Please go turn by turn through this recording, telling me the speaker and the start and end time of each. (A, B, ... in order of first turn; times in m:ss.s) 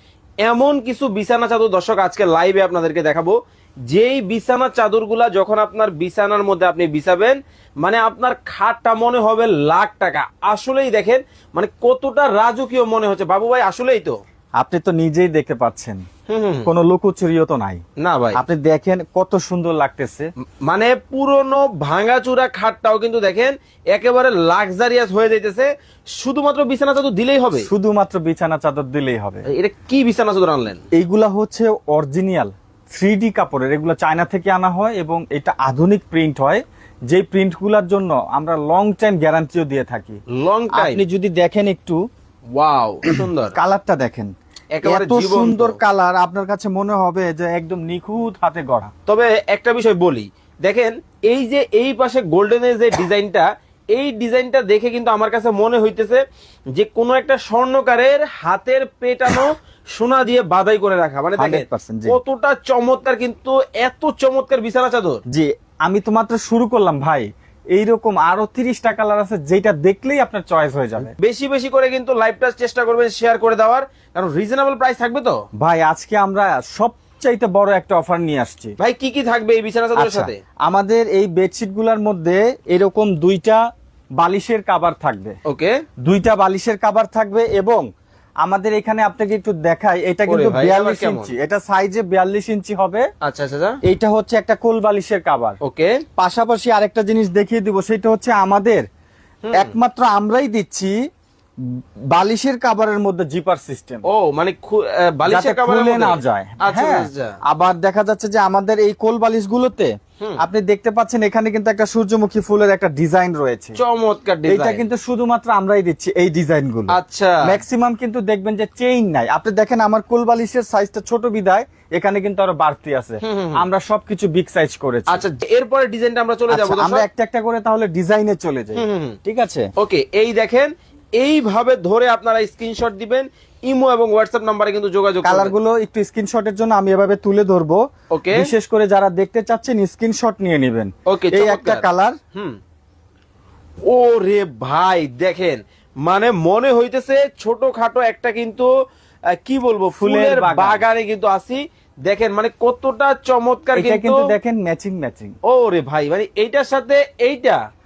0:00.4-0:03.4 A
0:03.9-0:14.2 A
0:14.6-0:16.0 B
0:16.3-0:16.7 A
0:16.6-0:17.8 B
0:18.0-0:18.4 A
0:18.3-0:20.3 B
0:20.6-0:27.7 A
0:27.6-0:29.4 B
0:29.5-0:30.8 A
0:30.9-0:40.2 B
0:40.3-0:41.0 A
0:40.7-0:42.0 B
0:42.6-0:43.6 A
0:43.5-0:44.3 B
0:44.7-0:45.8 A
0:44.8-0:48.9 B
0:49.1-0:56.2 A
0:56.7-1:05.2 A
1:01.4-1:02.2 B
1:05.3-1:11.1 B
1:11.0-1:15.4 A
1:15.6-1:18.7 B
1:18.8-1:20.4 A
1:20.0-1:23.6 B
1:24.2-1:25.4 B
1:25.4-1:25.8 A
1:26.0-1:27.8 B
1:28.4-1:33.0 B
1:30.3-1:31.3 A
1:33.2-1:33.8 A
1:33.8-1:35.6 B
1:35.6-1:36.0 A
1:36.2-1:38.8 B
1:39.4-1:39.7 A
1:39.5-1:41.0 B
1:41.6-1:44.0 B
1:44.0-1:47.4 A
1:45.3-1:53.8 B
1:53.8-1:54.8 A
1:54.5-2:05.2 B
1:56.9-1:57.5 A
2:03.2-2:03.6 A
2:05.1-2:07.0 A
2:06.5-2:09.7 B
2:08.8-2:09.2 A
2:09.8-2:15.5 A
2:15.2-2:22.2 B
2:18.1-2:18.5 A
2:21.0-2:22.6 A
2:23.9-2:28.7 A
2:29.4-2:34.3 A
2:30.0-2:30.8 B
2:33.7-2:35.3 B
2:35.4-2:37.6 A